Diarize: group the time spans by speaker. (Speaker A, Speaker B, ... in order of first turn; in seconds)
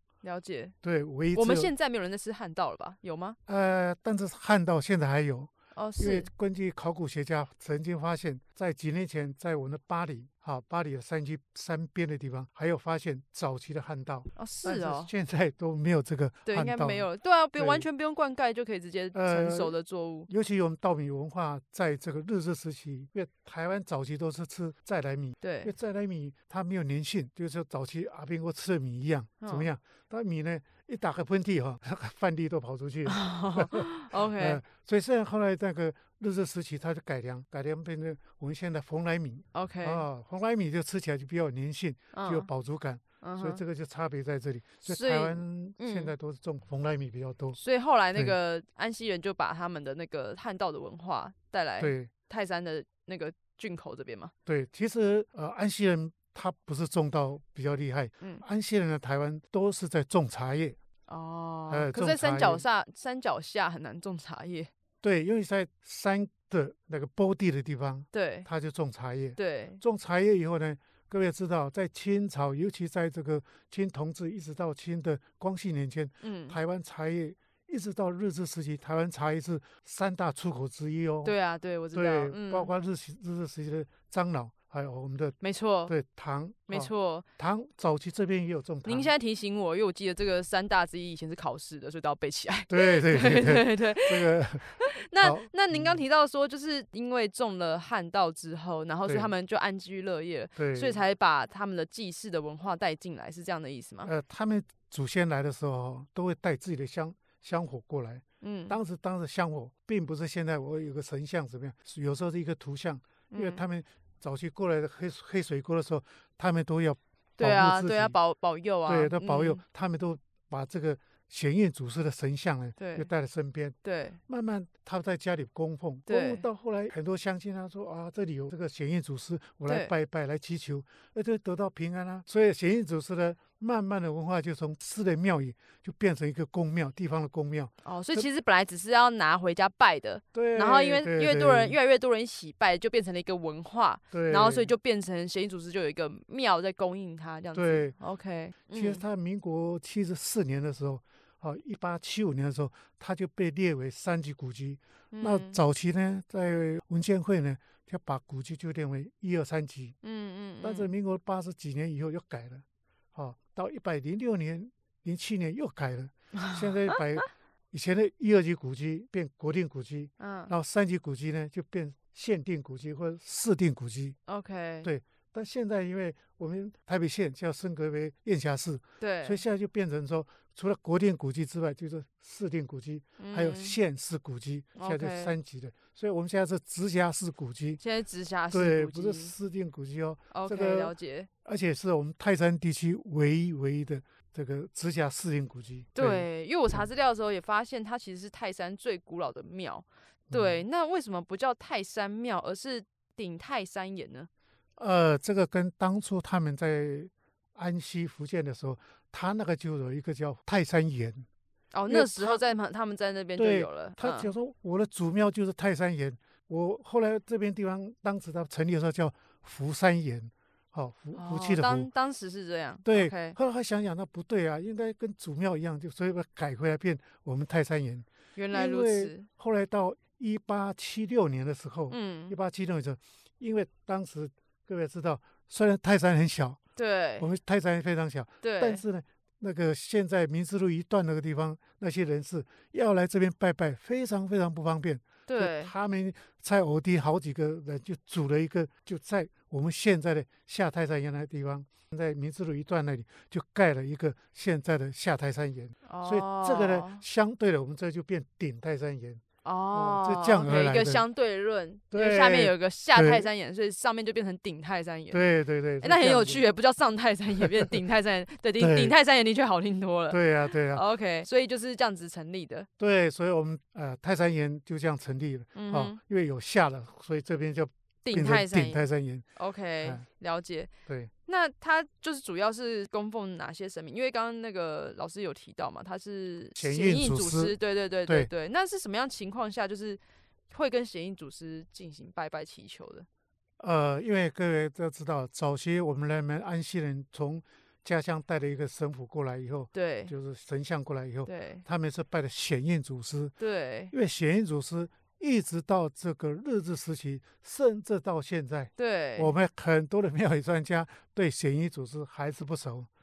Speaker A: 0.2-0.7, 1.3-3.4, 5.7-6.3, 14.3-15.1, 16.4-20.3, 25.4-25.7, 29.4-29.7, 33.0-34.6, 39.5-40.0, 42.1-42.5, 43.2-43.6, 44.8-46.1, 47.5-54.3, 61.1-64.7, 68.1-68.5, 69.4-69.8, 76.2-76.6, 81.2-82.7, 85.4-85.9, 86.7-87.2, 88.8-104.1, 108.4-108.8, 113.3-113.6, 117.4-119.6, 122.8-123.1, 123.8-124.2, 126.1-126.4, 137.8-149.0, 155.1-155.6, 160.0-160.9, 166.3-167.2, 170.2-170.5, 174.3-174.9, 179.0-179.4, 183.2-183.8, 184.8-185.3, 187.8-189.3, 190.3-191.3, 195.9-204.3, 211.7-214.3, 221.1-223.4, 228.3-229.3, 231.9-232.3, 236.8-237.3, 238.4-238.8, 245.3-245.7, 255.8-257.0, 259.4-272.7, 275.5-276.0, 278.0-278.8, 279.4-280.7, 281.2-293.1, 299.7-300.1, 301.2-301.6, 303.4-303.9, 308.8-309.3
Speaker B: 0.8-1.7, 3.5-17.9, 19.1-19.7, 20.3-47.6, 51.8-52.1, 54.5-60.8, 61.7-62.6, 65.0-81.3, 81.9-89.1, 92.7-96.0, 99.0-99.3, 100.5-101.0, 104.0-118.2, 118.8-123.8, 124.3-138.3, 140.3-141.8, 144.1-144.7, 147.5-147.9, 148.7-159.9, 160.6-174.2, 174.8-187.8, 188.5-196.8, 200.3-200.6, 204.8-211.3, 211.9-212.4, 213.3-221.9, 222.8-236.6, 237.2-261.0, 261.9-263.3, 265.1-266.4, 267.4-267.7, 268.6-268.9, 270.1-270.8, 272.8-279.2, 286.6-288.3, 293.6-303.3, 303.9-312.9